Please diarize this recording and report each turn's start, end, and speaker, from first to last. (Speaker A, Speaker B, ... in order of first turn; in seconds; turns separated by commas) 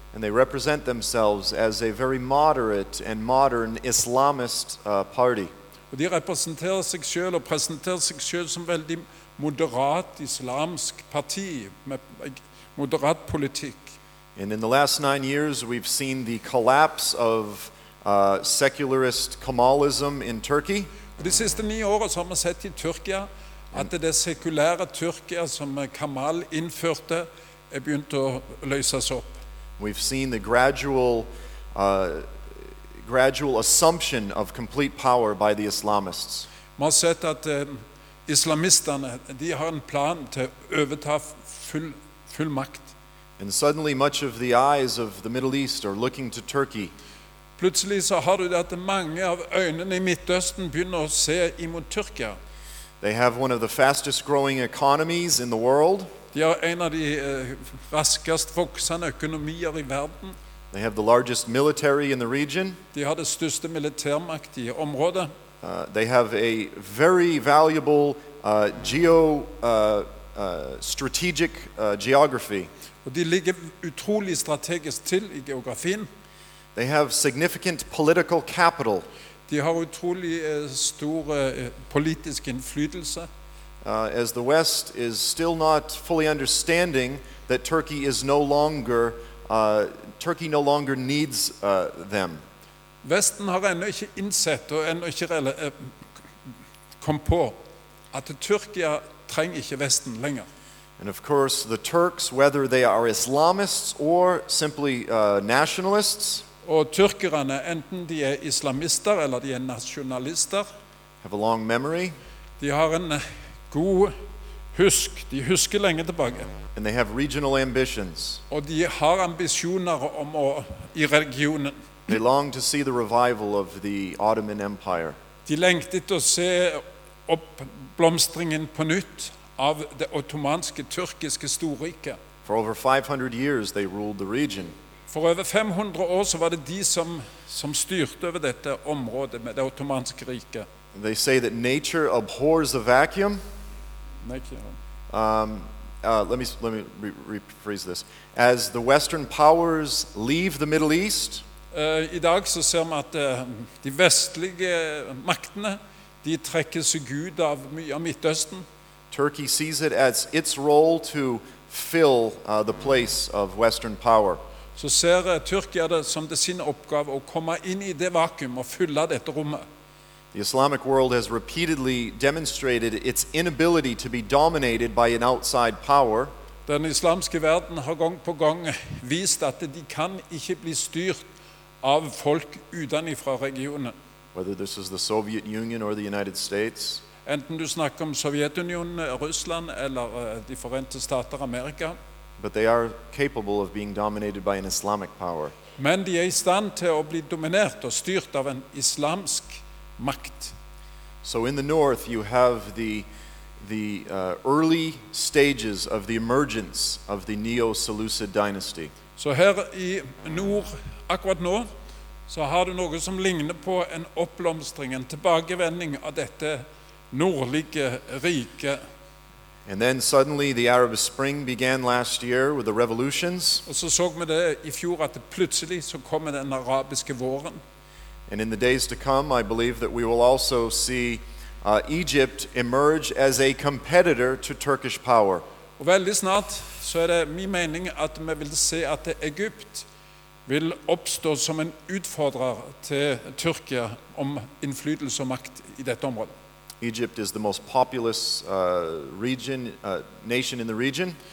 Speaker A: 0.1-5.5, Speaker B: 5.9-13.9, Speaker A: 14.4-20.9, Speaker B: 21.2-29.3, Speaker A: 29.8-32.3, Speaker A: 33.0-36.5, Speaker B: 36.8-42.9, Speaker A: 43.4-46.9, Speaker B: 47.6-52.4, Speaker A: 53.0-56.1, Speaker B: 56.3-60.4, Speaker A: 60.7-62.8, Speaker B: 62.9-65.3, Speaker A: 65.6-72.7, Speaker B: 73.0-76.1, Speaker A: 76.8-79.1, Speaker B: 79.5-83.3, Speaker A: 83.8-92.4, Speaker B: 93.0-95.9, Speaker B: 97.0-100.5, Speaker A: 101.0-106.5, Speaker B: 106.6-110.7, Speaker A: 111.2-112.2, Speaker B: 112.6-114.2, Speaker B: 114.7-116.5, Speaker A: 116.8-118.4, Speaker B: 118.5-121.8, Speaker A: 122.1-125.2, Speaker B: 125.5-132.2, Speaker A: 132.4-134.8, Speaker B: 135.1-140.7, Speaker A: 140.9-143.4, Speaker B: 144.2-144.8, Speaker A: 145.1-151.4, Speaker B: 151.7-158.7, Speaker A: 159.1-164.4, Speaker B: 164.8-169.7, Speaker A: 170.3-176.3, Speaker B: 176.7-181.2, Speaker B: 181.8-183.9, Speaker A: 184.3-187.0, Speaker B: 187.2-192.0, Speaker A: 192.4-195.5, Speaker B: 195.8-200.6, Speaker A: 201.2-203.1, Speaker A: 203.6-208.9, Speaker B: 209.2-211.7, Speaker B: 212.3-218.8, Speaker A: 219.7-223.6, Speaker B: 223.7-227.6, Speaker A: 228.3-235.4, Speaker B: 235.8-239.9, Speaker B: 240.5-246.3, Speaker A: 246.8-251.2